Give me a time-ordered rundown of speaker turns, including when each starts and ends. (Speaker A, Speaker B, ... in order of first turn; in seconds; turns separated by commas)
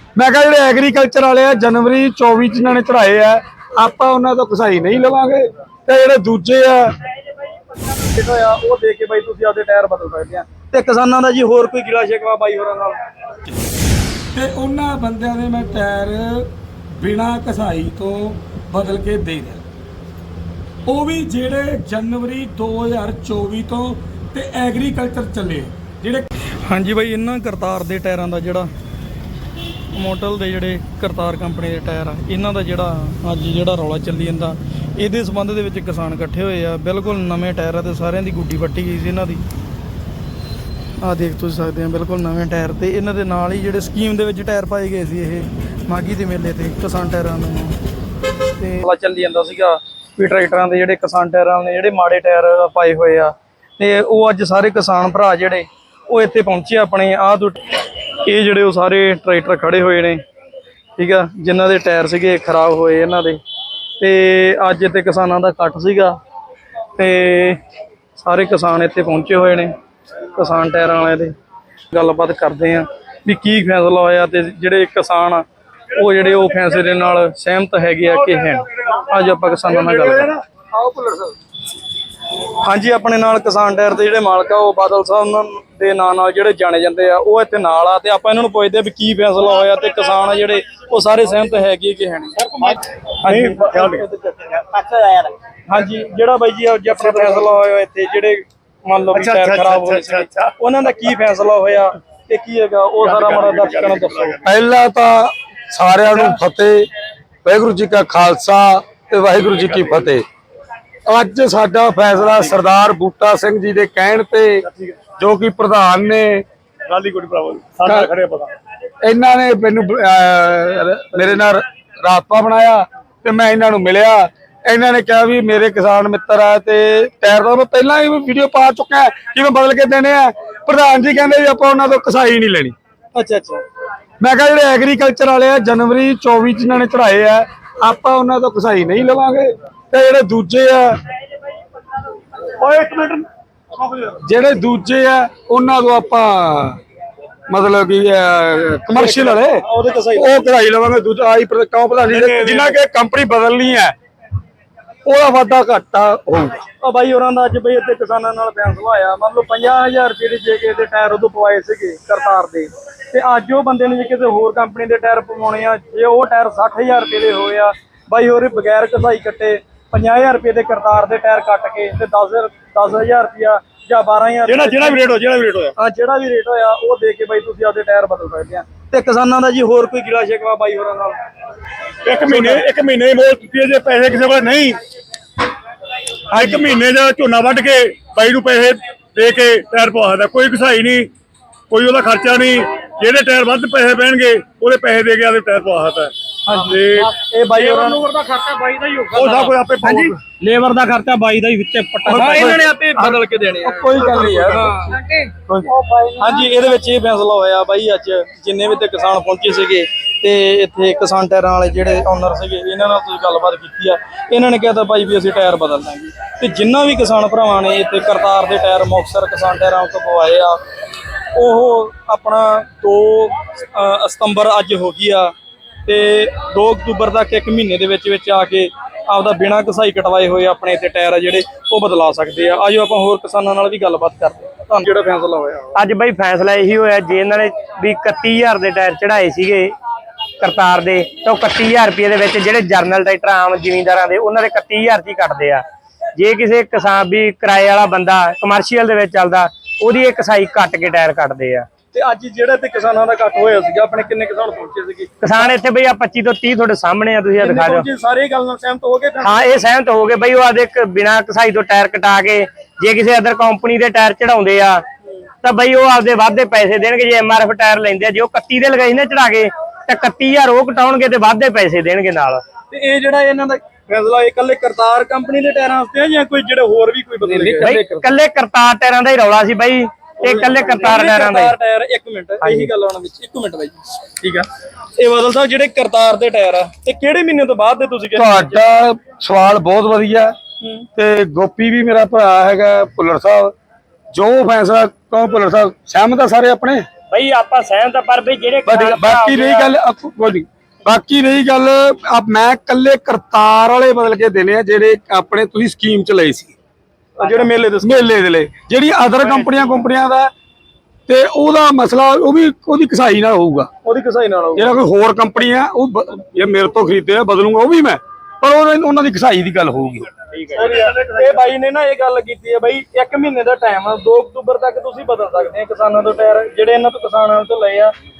Speaker A: 0.2-6.9, Speaker B: 7.9-13.0, Speaker A: 14.3-19.6, Speaker A: 20.9-26.3, Speaker B: 26.7-28.7, Speaker B: 29.9-39.4, Speaker B: 41.0-47.8, Speaker B: 48.6-57.6, Speaker B: 58.2-60.2, Speaker B: 61.0-63.4, Speaker B: 64.0-66.2, Speaker B: 67.0-67.6, Speaker B: 68.2-69.7, Speaker B: 70.3-71.3, Speaker B: 71.9-80.3, Speaker C: 79.7-81.3, Speaker B: 82.6-94.0, Speaker C: 92.6-94.1, Speaker D: 94.6-95.3, Speaker B: 95.7-104.4, Speaker C: 97.0-97.5, Speaker C: 99.1-100.5, Speaker C: 103.0-104.4, Speaker A: 104.4-106.9, Speaker A: 107.5-110.2, Speaker A: 111.1-114.7, Speaker C: 114.7-115.0, Speaker A: 115.2-116.5, Speaker C: 116.9-118.6, Speaker A: 117.8-118.1, Speaker A: 119.0-132.8, Speaker B: 133.2-133.6, Speaker A: 134.2-141.0, Speaker C: 142.5-144.2, Speaker A: 144.2-146.8, Speaker A: 147.5-149.6, Speaker B: 148.9-150.3, Speaker A: 150.2-153.9, Speaker C: 152.1-152.8, Speaker A: 155.1-156.6, Speaker B: 156.8-175.0, Speaker C: 174.5-175.7, Speaker B: 175.8-181.2, Speaker C: 182.1-184.8, Speaker B: 182.2-182.7, Speaker B: 186.3-186.6, Speaker C: 186.3-191.1, Speaker C: 191.7-200.2, Speaker B: 196.5-198.1, Speaker D: 198.4-199.5, Speaker B: 199.8-200.1, Speaker D: 200.4-202.6, Speaker A: 202.1-204.8, Speaker B: 202.1-205.0, Speaker D: 204.9-206.2, Speaker B: 206.2-220.6, Speaker B: 221.3-225.3, Speaker B: 225.9-235.7, Speaker D: 235.8-239.7, Speaker D: 240.4-245.6, Speaker D: 246.2-251.7, Speaker B: 251.9-255.5, Speaker D: 255.2-257.9, Speaker B: 257.4-259.4, Speaker D: 259.2-264.8, Speaker D: 265.4-272.4, Speaker B: 272.7-278.1, Speaker D: 277.3-281.5, Speaker B: 280.2-288.6, Speaker D: 282.4-282.7, Speaker A: 288.1-290.4, Speaker B: 290.6-290.9, Speaker A: 291.0-293.5, Speaker A: 294.1-296.9, Speaker D: 297.1-299.7, Speaker A: 298.7-306.6, Speaker B: 307.2-308.1, Speaker A: 307.8-310.3, Speaker A: 311.1-313.7, Speaker B: 313.8-314.7, Speaker A: 314.6-320.1, Speaker B: 320.5-327.9